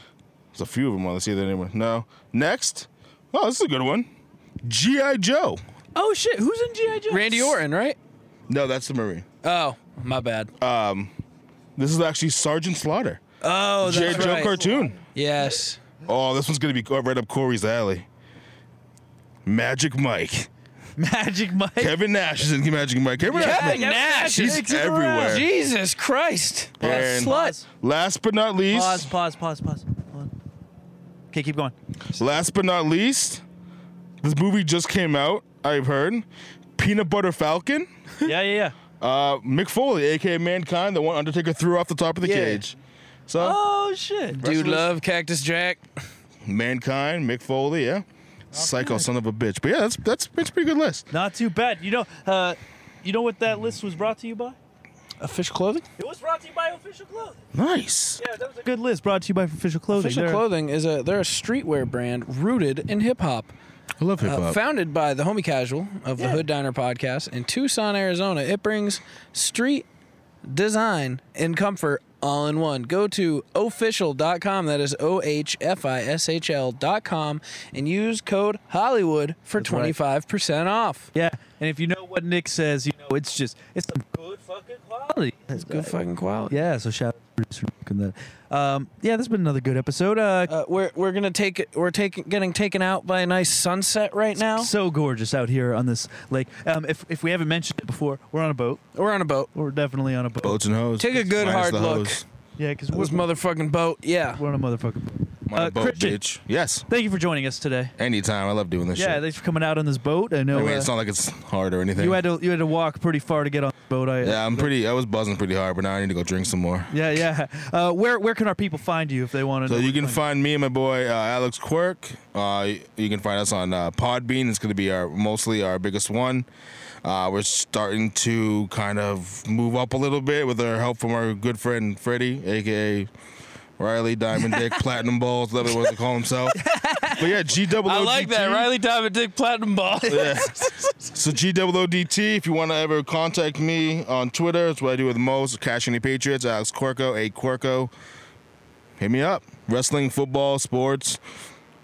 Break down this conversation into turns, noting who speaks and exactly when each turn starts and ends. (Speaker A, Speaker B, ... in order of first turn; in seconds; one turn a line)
Speaker A: 0.5-4.1
Speaker A: 4.6-5.6
Speaker B: 6.0-7.5
Speaker C: 7.1-8.0
Speaker A: 8.5-9.3
Speaker C: 9.4-10.5
Speaker A: 10.6-11.1
Speaker A: 11.8-13.2
Speaker B: 13.4-14.9
Speaker A: 13.8-15.0
Speaker C: 13.9-15.8
Speaker A: 16.1-18.1
Speaker A: 19.5-20.5
Speaker B: 21.0-21.9
Speaker A: 21.8-25.5
Speaker B: 23.2-25.4
Speaker C: 23.4-27.6
Speaker B: 26.8-27.7
Speaker A: 26.8-29.1
Speaker B: 28.7-30.3
Speaker B: 31.3-31.8
Speaker A: 32.1-33.4
Speaker A: 34.2-36.3
Speaker A: 36.8-37.9
Speaker B: 38.2-38.8
Speaker A: 39.0-42.8
Speaker C: 42.2-42.6
Speaker A: 43.3-43.6
Speaker B: 43.4-44.4
Speaker A: 44.4-44.8
Speaker C: 44.4-45.9
Speaker A: 46.5-51.1
Speaker B: 48.5-49.1
Speaker B: 51.1-54.6
Speaker C: 55.2-55.9
Speaker B: 56.0-57.4
Speaker A: 57.5-58.2
Speaker B: 58.2-60.4
Speaker C: 59.9-63.5
Speaker A: 64.0-64.6
Speaker C: 64.2-69.8
Speaker B: 66.2-66.4
Speaker C: 70.5-81.1
Speaker B: 79.6-80.0
Speaker B: 81.2-86.0
Speaker C: 85.6-86.5
Speaker B: 86.5-90.5
Speaker C: 90.5-94.7
Speaker B: 94.6-98.8
Speaker C: 99.0-99.5
Speaker B: 99.5-100.6
Speaker A: 100.4-102.2
Speaker C: 101.0-102.2
Speaker B: 102.6-103.3
Speaker C: 102.9-104.4
Speaker B: 104.3-106.2
Speaker A: 105.5-106.9
Speaker B: 106.9-107.9
Speaker A: 108.0-109.2
Speaker B: 109.0-110.9
Speaker A: 110.5-112.2
Speaker B: 112.0-114.7
Speaker A: 114.2-116.9
Speaker B: 116.9-120.2
Speaker A: 119.7-126.5
Speaker A: 127.0-133.1
Speaker A: 133.8-138.7
Speaker B: 136.5-137.2
Speaker C: 137.8-140.5
Speaker B: 140.1-140.7
Speaker A: 140.1-147.9
Speaker A: 149.0-151.2